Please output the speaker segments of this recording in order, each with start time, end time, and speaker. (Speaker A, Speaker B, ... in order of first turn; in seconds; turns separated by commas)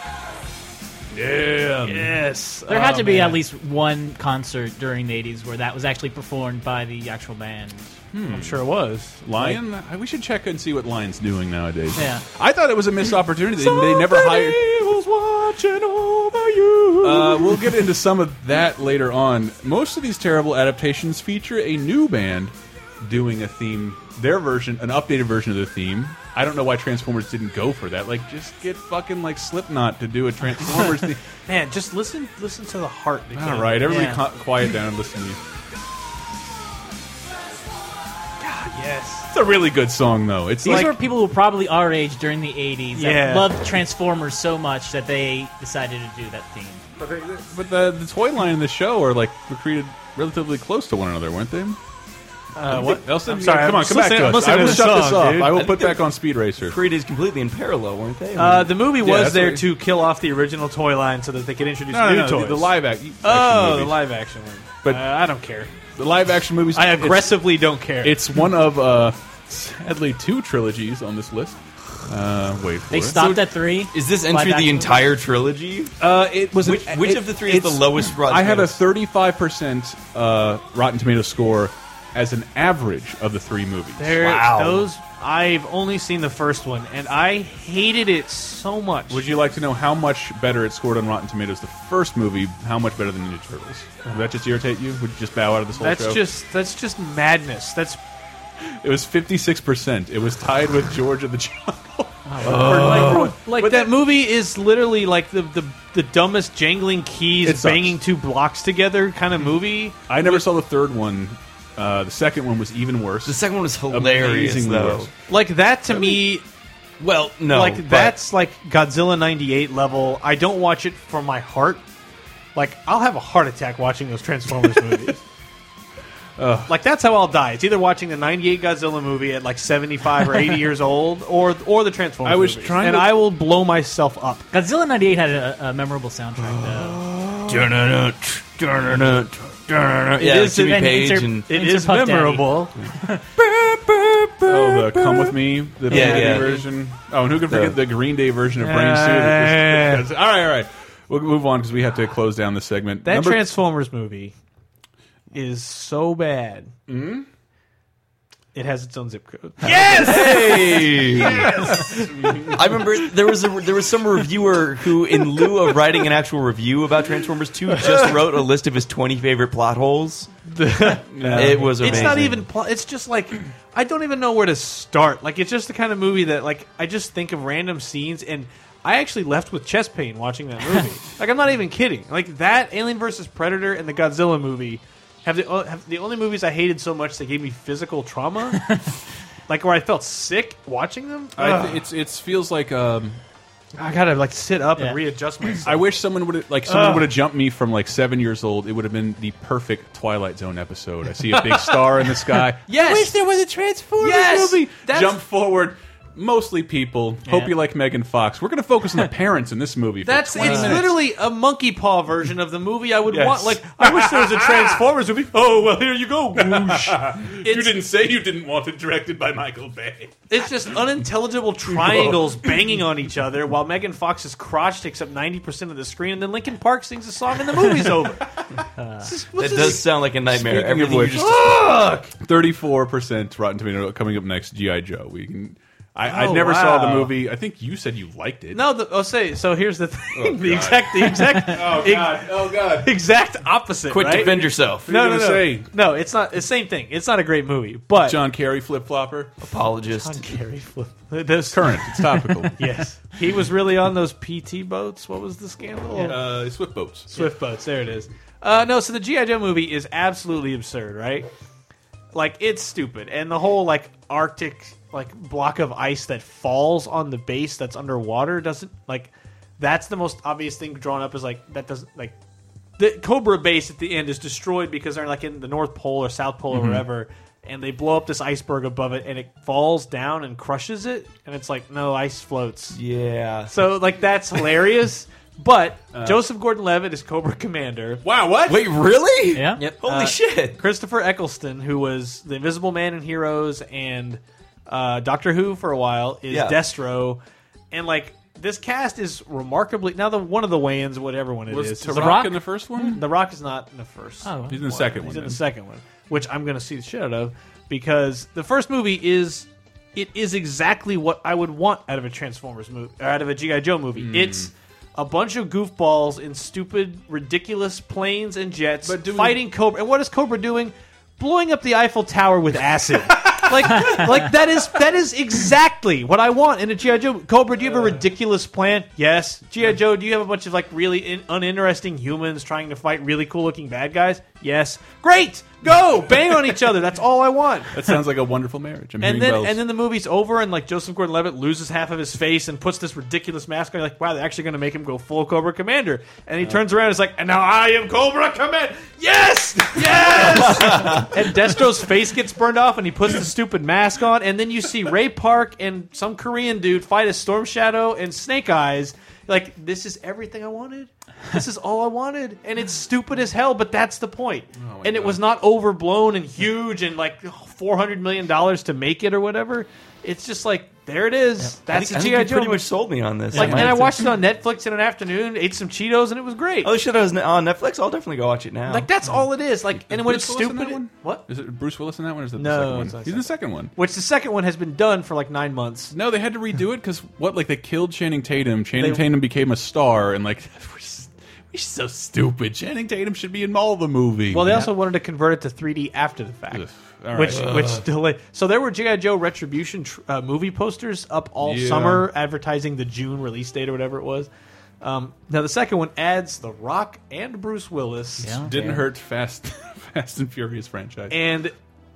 Speaker A: 1.1-2.2, Speaker B: 1.8-3.4, Speaker C: 2.7-7.9, Speaker A: 8.1-8.7, Speaker B: 8.2-9.6, Speaker A: 9.2-14.6, Speaker C: 12.0-12.2, Speaker B: 13.6-17.9, Speaker A: 17.0-31.2, Speaker B: 31.5-34.0, Speaker A: 33.4-35.4, Speaker C: 33.9-34.2, Speaker B: 38.4-39.3, Speaker A: 39.3-41.0, Speaker C: 40.6-46.8, Speaker B: 40.6-40.9, Speaker B: 43.0-43.5, Speaker A: 47.0-51.8, Speaker B: 52.5-55.7, Speaker A: 52.6-56.8, Speaker D: 55.5-56.0, Speaker D: 56.6-58.8, Speaker B: 58.4-65.7, Speaker A: 59.0-59.7, Speaker A: 61.9-64.0, Speaker A: 64.8-65.1, Speaker A: 66.0-73.4, Speaker B: 66.7-68.2, Speaker C: 72.9-75.0, Speaker D: 73.2-76.0, Speaker A: 76.0-84.6, Speaker D: 76.6-78.8, Speaker B: 84.0-89.2, Speaker D: 84.2-84.9, Speaker A: 89.1-96.3, Speaker B: 95.8-98.0, Speaker A: 98.8-103.9, Speaker C: 102.3-103.2, Speaker B: 102.4-110.5, Speaker D: 102.4-103.4, Speaker A: 107.4-108.0, Speaker A: 110.1-115.1, Speaker D: 113.2-115.1, Speaker B: 115.3-116.5, Speaker D: 117.0-118.2, Speaker B: 117.5-121.8, Speaker B: 122.5-125.2, Speaker A: 126.4-126.7, Speaker B: 126.7-134.4, Speaker A: 132.2-133.2, Speaker C: 134.5-137.0, Speaker D: 136.4-141.5, Speaker C: 140.2-143.2, Speaker B: 141.5-142.8, Speaker D: 143.4-144.9, Speaker A: 144.4-153.4, Speaker D: 145.9-146.6, Speaker B: 145.9-146.7, Speaker D: 147.5-147.8, Speaker B: 148.6-150.1, Speaker B: 153.0-154.3, Speaker B: 155.3-156.7, Speaker A: 156.9-157.3, Speaker B: 158.5-162.8, Speaker A: 159.7-160.2, Speaker D: 159.8-161.8, Speaker A: 161.1-162.8, Speaker D: 162.5-170.3, Speaker B: 167.7-168.2, Speaker B: 170.5-188.7, Speaker A: 171.1-172.3, Speaker D: 171.2-172.5, Speaker B: 189.5-191.8, Speaker A: 191.4-193.2, Speaker B: 193.8-195.9, Speaker A: 195.6-211.0, Speaker B: 196.7-197.1, Speaker B: 201.3-203.2, Speaker B: 204.0-205.2, Speaker C: 207.3-207.5, Speaker B: 210.1-217.8, Speaker C: 210.4-210.8, Speaker A: 213.1-214.8, Speaker A: 216.3-221.0, Speaker B: 220.3-228.3, Speaker A: 221.7-222.8, Speaker C: 228.8-229.1, Speaker B: 229.0-229.9, Speaker D: 229.3-231.6, Speaker A: 230.3-238.7, Speaker B: 231.1-232.1, Speaker B: 236.0-237.2, Speaker B: 238.5-248.2, Speaker A: 240.1-242.9, Speaker D: 243.9-244.9, Speaker A: 244.8-245.7, Speaker A: 248.0-249.4, Speaker D: 249.4-250.2, Speaker B: 249.9-256.2, Speaker A: 251.5-252.7, Speaker A: 256.0-257.3, Speaker B: 257.1-261.3, Speaker B: 262.1-272.2, Speaker B: 272.8-282.8, Speaker A: 276.5-276.9, Speaker D: 282.7-283.7, Speaker B: 283.5-288.0, Speaker A: 285.9-286.2, Speaker A: 288.0-288.7, Speaker D: 288.5-290.6, Speaker C: 289.3-289.6, Speaker B: 289.6-297.2, Speaker D: 296.3-296.6, Speaker B: 297.7-302.4, Speaker A: 301.5-303.1, Speaker C: 301.9-303.0, Speaker B: 302.9-337.8, Speaker C: 304.2-304.6, Speaker A: 304.5-305.4, Speaker A: 314.0-314.5, Speaker A: 318.8-319.4, Speaker A: 323.2-324.1, Speaker A: 327.6-328.0, Speaker A: 337.7-339.6, Speaker B: 339.0-372.7, Speaker A: 349.7-351.2, Speaker A: 364.6-365.2, Speaker D: 371.7-374.1, Speaker B: 373.3-376.7, Speaker C: 373.3-373.9, Speaker D: 376.6-378.9, Speaker B: 378.7-381.3, Speaker A: 379.8-383.7, Speaker B: 382.4-385.9, Speaker A: 385.9-394.7, Speaker B: 388.8-389.1, Speaker B: 394.3-404.3, Speaker A: 396.5-397.8, Speaker D: 397.3-397.8, Speaker A: 401.4-402.1, Speaker B: 404.8-408.4, Speaker C: 408.2-408.9, Speaker A: 408.3-411.2, Speaker B: 411.1-411.6